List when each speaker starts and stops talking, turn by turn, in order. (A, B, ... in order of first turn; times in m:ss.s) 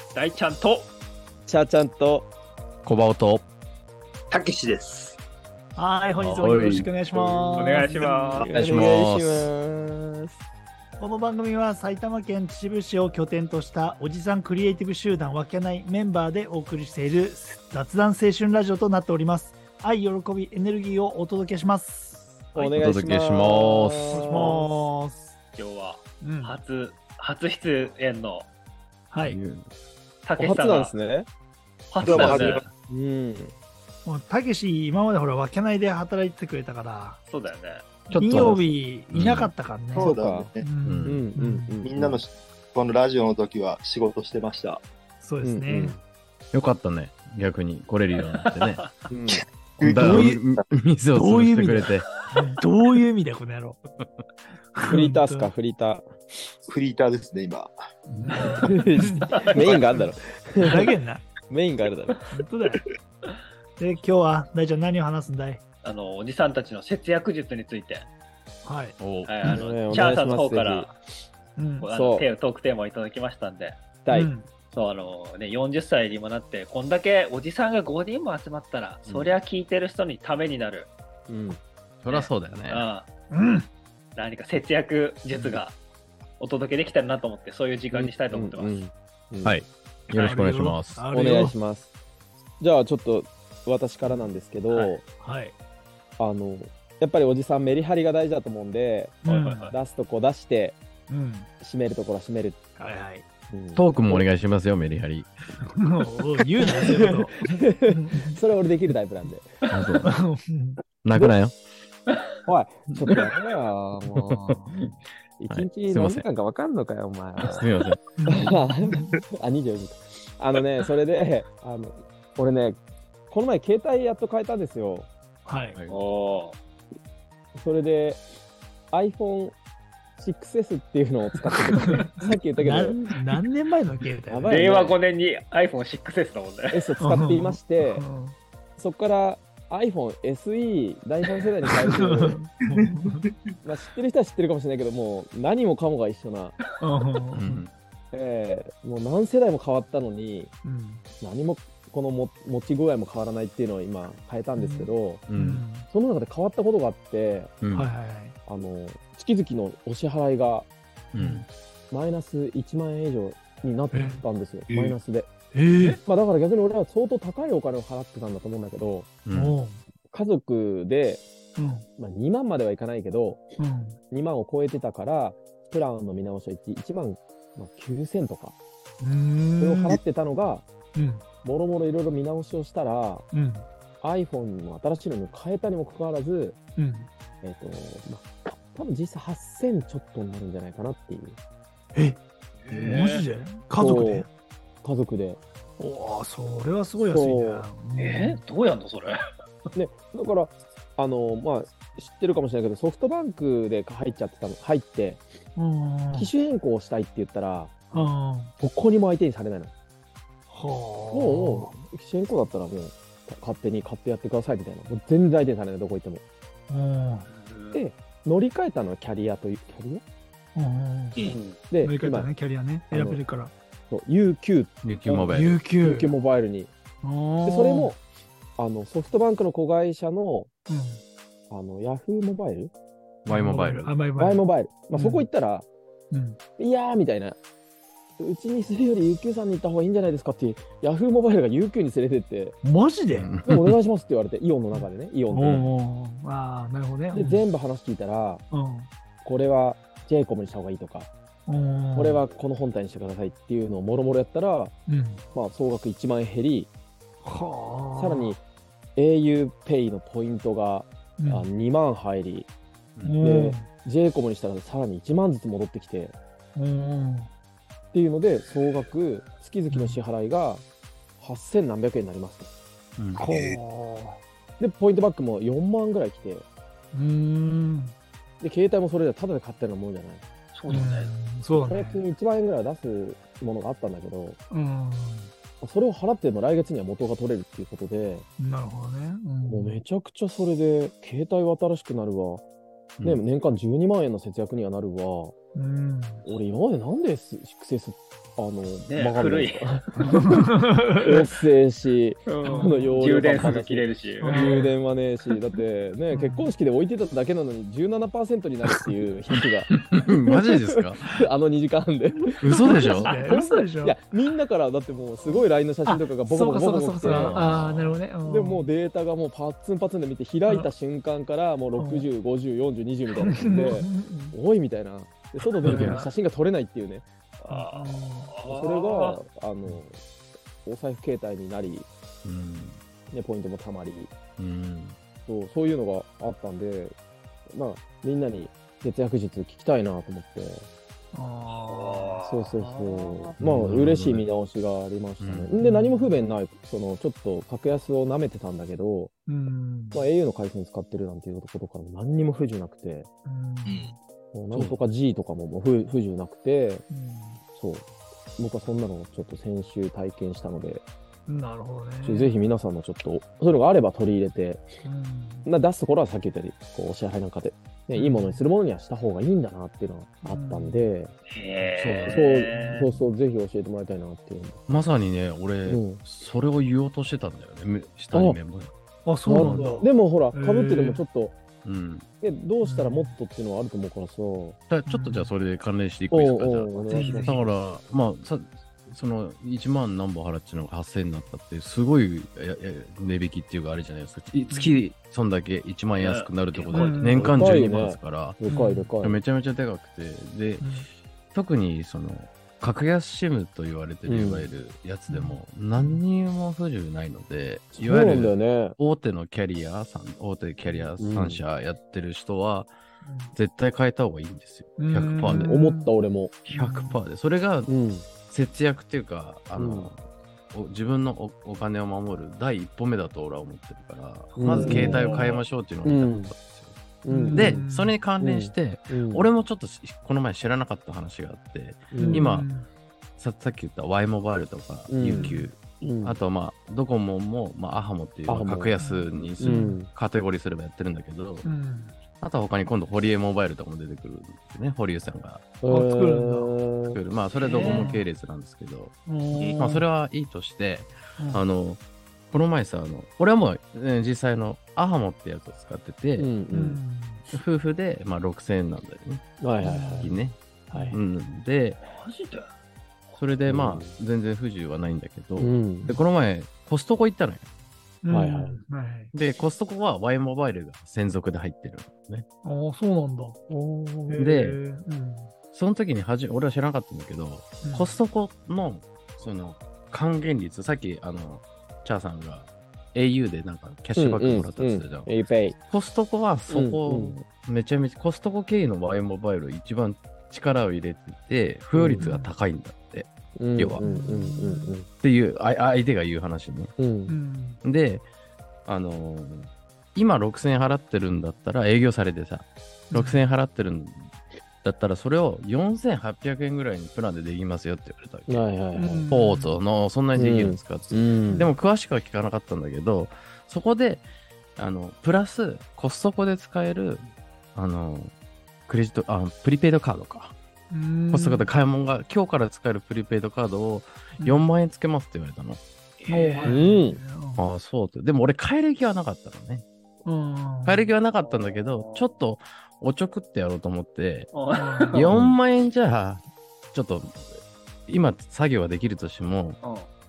0:00.1-0:00.9 A
0:01.5-0:02.3 B
0:02.8-0:03.4 C
0:04.3-0:05.2 D
0:05.7-0:08.5 E
0:06.2-0:06.9 C
0:07.1-0:07.8 B
0:07.6-0:08.5 A
0:08.4-0:10.4 B
0:08.4-0:09.5 C
0:11.0-0:22.8 E
0:22.5-0:24.6 B
0:22.8-0:24.4 C
0:24.1-0:25.3 E
0:24.4-0:24.9 A
0:25.6-0:28.5 A
0:26.2-0:26.5 E
0:29.1-0:29.4 E
0:29.2-0:29.6 C
0:30.2-0:30.9 A
0:30.4-0:31.3 B
0:31.9-0:32.7 A
0:32.0-0:32.6 D
0:32.0-0:33.5 B
0:34.0-0:37.2 E
0:37.2-0:37.8 A
0:38.1-0:41.8 E
0:38.1-0:39.5 C
0:39.9-0:40.6 D
0:39.9-0:40.5 B
0:40.8-0:41.2 C
0:41.0-0:42.2 B
0:41.8-0:44.8 D
0:45.2-0:46.0 E
0:45.4-0:46.0 B
0:46.5-0:48.8 C
0:48.2-0:48.9 A
0:49.1-0:49.4 B
0:49.3-0:50.3 D
0:49.8-0:52.2 C
0:49.9-0:50.4 E
0:51.1-0:53.8 E
0:54.7-0:55.5 E
0:54.9-0:56.0 B
0:56.6-0:57.7 D
0:58.1-1:00.0 E
0:58.6-1:00.9 B
0:59.3-0:59.8 A
1:00.6-1:01.2 E
1:01.5-1:02.2 B
1:02.3-1:02.8 E
1:03.8-1:05.6 E
1:05.8-1:08.0 A
1:08.6-1:09.0 E
1:09.0-1:09.3 C
1:09.2-1:10.9 A
1:09.4-1:10.9 B
1:11.6-1:11.8 E
1:11.8-1:13.8 A
1:11.9-1:12.2 B
1:14.0-1:14.3 B
1:14.1-1:14.5 E
1:14.7-1:20.9 A
1:19.0-1:19.3 B
1:21.3-1:21.6 B
1:22.0-1:22.8 C
1:22.1-1:23.1 A
1:23.3-1:23.7 E
1:24.2-1:25.8 A
1:25.3-1:25.6 E
1:26.4-1:28.8 A
1:27.9-1:29.6 B
1:29.4-1:31.0 C
1:30.1-1:31.5 E
1:31.1-1:31.9 B
1:32.6-1:35.0 B
1:34.7-1:35.0 A
1:35.2-1:35.5 E
1:36.2-1:40.8 B
1:39.2-1:39.7 E
1:39.2-1:39.7 A
1:41.1-1:41.5 E
1:41.6-1:42.6 B
1:42.8-1:43.2 E
1:43.5-1:44.2 B
1:43.7-1:45.3 C
1:45.6-1:48.4 E
1:46.6-1:49.5 B
1:49.7-1:50.1 C
1:50.0-1:50.8 E
1:51.0-1:51.6 C
1:52.4-1:54.6 B
1:54.2-1:54.9 C
1:55.4-1:57.6 B
1:55.5-1:56.2 C
1:57.5-1:58.1 C
1:58.2-1:59.1 E
1:58.3-2:05.1 B
2:05.4-2:05.8 E
2:05.9-2:06.6 A
2:07.6-2:08.2 B
2:08.9-2:09.6 B
2:10.2-2:13.2 B
2:11.8-2:14.6 E
2:14.3-2:15.0 B
2:14.4-2:16.8 A
2:16.7-2:18.0 B
2:17.0-2:18.3 E
2:18.8-2:22.4 B
2:21.7-2:23.3 E
2:23.6-2:26.6 B
2:26.8-2:27.6 E
2:27.3-2:27.7 C
2:28.1-2:30.5 B
2:30.6-2:31.0 E
2:31.2-2:35.2 B
2:34.6-2:35.9 E
2:35.3-2:35.6 C
2:35.8-2:37.5 B
2:37.6-2:37.9 C
2:37.7-2:38.3 E
2:38.5-2:40.7 B
2:41.1-2:41.4 C
2:41.2-2:41.5 E
2:41.9-2:45.3 B
2:43.9-2:44.2 E
2:45.5-2:46.0 E
2:45.8-2:49.1 B
2:49.2-2:49.6 C
2:49.3-2:49.8 E
2:50.1-2:51.2 B
2:51.6-2:51.9 E
2:52.0-2:53.6 B
2:53.6-2:54.0 E
2:54.1-2:58.6 B
2:59.0-3:00.0 E
2:59.6-3:00.6 B
3:00.9-3:01.2 E
3:01.4-3:03.2 B
3:03.3-3:03.7 E
3:04.0-3:06.6 B
3:06.8-3:07.1 E
3:07.4-3:11.4 B
3:12.7-3:13.2 A
3:12.7-3:14.3 E
3:13.8-3:14.3 B
3:14.8-3:15.4 B
3:15.8-3:18.4 E
3:17.0-3:17.7 B
3:17.9-3:19.2 A
3:19.7-3:25.2 B
3:25.6-3:26.3 E
3:26.1-3:27.9 B
3:27.9-3:28.5 E
3:28.6-3:29.7 B
3:30.5-3:31.8 E
3:31.1-3:36.2 B
3:36.7-3:37.3 E
3:37.3-3:37.8 A
3:37.7-3:40.0 B
3:40.5-3:41.2 E
3:41.2-3:41.6 A
3:41.3-3:42.3 B
3:41.8-3:43.5 E
3:42.9-3:43.2 B
3:43.9-3:46.7 B
3:44.8-3:45.6 C
3:45.3-3:46.1 E
3:47.0-3:48.0 E
3:47.4-3:48.0 B
3:48.6-3:50.5 B
3:50.7-3:51.0 E
3:51.5-3:52.7 B
3:53.2-3:53.9 C
3:53.3-3:55.3 E
3:54.2-3:55.7 B
3:56.1-3:56.4 E
3:56.6-3:57.4 B
3:58.2-4:02.6 B
4:02.6-4:03.4 E
4:03.1-4:03.8 C
4:03.4-4:05.6 B
4:04.7-4:07.4 E
4:07.1-4:08.4 B
4:08.5-4:08.9 E
4:09.2-4:11.1 B
4:11.5-4:12.2 E
4:12.0-4:14.7 B
4:14.9-4:15.2 E
4:15.3-4:16.7 B
4:17.2-4:18.4 E
4:18.0-4:18.4 B
4:19.0-4:22.5 B
4:21.2-4:21.5 E
4:23.0-4:23.7 E
4:23.2-4:26.2 B
4:26.5-4:27.3 E
4:27.9-4:30.6 B
4:29.7-4:30.0 E
4:31.2-4:32.5 B
4:33.1-4:34.2 E
4:33.2-4:33.6 D
4:34.6-4:36.4 B
4:36.9-4:37.9 E
4:38.4-4:40.2 B
4:40.5-4:41.1 A
4:40.7-4:42.0 E
4:41.6-4:44.4 B
4:44.5-4:45.3 E
4:45.6-4:48.2 B
4:48.4-4:49.8 E
4:49.5-4:52.4 B
4:53.0-4:55.3 B
4:55.5-4:56.2 E
4:56.2-4:59.8 B
4:58.9-5:00.1 A
5:00.0-5:01.2 E
5:01.0-5:27.0 B
5:02.3-5:04.6 A
5:02.4-5:03.0 E
5:04.2-5:04.7 E
5:06.1-5:06.5 E
5:09.9-5:11.0 C
5:12.2-5:14.0 E
5:12.4-5:13.2 C
5:13.0-5:13.3 A
5:15.2-5:18.7 E
5:17.0-5:17.9 C
5:21.8-5:22.1 E
5:23.1-5:24.4 E
5:25.6-5:26.1 E
5:25.6-5:26.0 C
5:27.4-5:29.2 A
5:27.5-5:28.3 E
5:28.4-5:30.0 B
5:30.6-5:31.9 B
5:32.2-5:32.8 C
5:33.1-5:34.1 B
5:34.4-5:35.0 C
5:35.2-5:36.9 B
5:37.5-5:40.7 B
5:41.1-5:42.2 E
5:41.4-5:43.4 A
5:42.2-5:49.1 B
5:43.4-5:44.2 C
5:45.2-5:45.5 C
5:45.6-5:46.2 E
5:49.2-5:50.1 E
5:49.9-5:53.1 B
5:53.2-5:53.9 E
5:53.7-5:53.9 D
5:54.3-5:56.8 B
5:54.5-5:54.8 C
5:56.9-5:57.4 E
5:57.6-5:57.8 B
5:58.4-6:00.8 B
6:01.3-6:02.3 E
6:02.0-6:04.6 B
6:04.8-6:05.5 E
6:05.4-6:11.1 B
6:07.9-6:08.4 E
6:10.2-6:10.9 E
6:11.3-6:12.9 A
6:11.6-6:12.0 E
6:11.8-6:12.2 C
6:12.1-6:14.6 B
6:12.5-6:13.0 E
6:14.7-6:18.7 C
6:15.6-6:16.0 B
6:18.1-6:18.4 B
6:19.0-6:21.0 E
6:19.2-6:21.4 B
6:19.3-6:19.8 C
6:21.6-6:22.0 C
6:22.2-6:24.6 B
6:22.6-6:23.1 E
6:24.7-6:38.4 C
6:24.9-6:25.3 E
6:26.1-6:27.3 B
6:26.9-6:27.3 E
6:26.9-6:27.4 A
6:34.5-6:34.8 E
6:36.0-6:37.1 A
6:36.7-6:37.3 E
6:37.1-6:39.2 B
6:38.4-6:38.9 E
6:39.0-6:40.7 C
6:40.6-6:40.9 E
6:41.3-6:52.7 C
6:44.0-6:44.5 B
6:45.1-6:46.0 E
6:47.7-6:48.8 B
6:50.6-6:50.9 E
6:51.0-6:51.4 B
6:53.0-6:53.3 E
6:53.3-6:55.5 C
6:54.8-6:55.9 E
6:55.3-6:56.4 B
6:56.5-6:57.0 E
6:56.5-6:57.7 C
6:57.7-6:58.0 B
6:58.2-7:06.8 C
6:59.5-6:59.9 B
7:04.3-7:05.4 A
7:04.4-7:05.1 B
7:04.6-7:05.2 E
7:05.8-7:06.3 B
7:07.0-7:07.6 B
7:07.1-7:08.0 E
7:07.3-7:12.5 C
7:08.2-7:09.3 B
7:11.9-7:12.3 B
7:12.0-7:12.7 E
7:13.2-7:21.4 C
7:14.9-7:16.2 B
7:15.0-7:15.5 E
7:18.3-7:18.8 B
7:18.8-7:19.8 E
7:19.4-7:19.9 B
7:21.4-7:22.0 E
7:22.2-7:25.5 C
7:25.6-7:27.0 B
7:25.6-7:26.6 E
7:26.9-7:28.9 C
7:27.3-7:27.9 A
7:27.5-7:28.1 E
7:29.0-7:29.8 E
7:29.5-7:36.3 C
7:31.2-7:31.4 E
7:36.2-7:36.8 B
7:36.5-7:37.3 E
7:37.3-7:39.2 C
7:39.4-7:40.1 B
7:39.6-7:40.2 E
7:40.0-7:40.4 C
7:40.7-7:41.0 E
7:40.7-7:41.0 B
7:40.9-7:41.8 C
7:41.8-7:42.5 A
7:43.2-7:47.4 C
7:43.4-7:43.9 B
7:45.4-7:45.9 B
7:48.0-7:49.1 E
7:48.1-7:48.6 B
7:49.1-7:52.2 C
7:52.4-7:55.3 E
7:54.2-7:54.6 C
7:55.5-8:05.1 C
7:57.6-7:58.0 E
8:03.9-8:05.6 B
8:05.7-8:13.8 C
8:06.5-8:07.2 B
8:11.7-8:12.1 B
8:12.0-8:12.3 E
8:13.4-8:14.8 B
8:13.8-8:14.8 E
8:15.0-8:16.7 C
8:16.8-8:17.1 B
8:17.1-8:17.6 E
8:17.6-8:18.0 C
8:18.6-8:24.1 C
8:22.9-8:23.2 E
8:24.6-8:28.6 C
8:28.3-8:29.1 B
8:28.7-8:29.5 E
8:29.1-8:34.0 C
8:30.1-8:31.5 B
8:34.6-8:38.1 C
8:38.7-8:40.4 C
8:40.7-8:41.5 E
8:41.1-8:45.6 C
8:44.2-8:44.5 E
8:46.0-8:46.7 A
8:46.1-8:47.4 E
8:46.4-8:47.0 B
8:47.4-8:49.6 C
8:50.0-8:50.9 E
8:50.6-8:54.3 C
8:51.2-8:52.1 A
8:54.3-8:55.1 A
8:54.5-8:55.1 E
8:54.9-8:56.2 C
8:55.1-8:55.4 B
8:56.7-8:57.3 C
8:57.9-8:59.6 C
8:59.6-8:59.9 A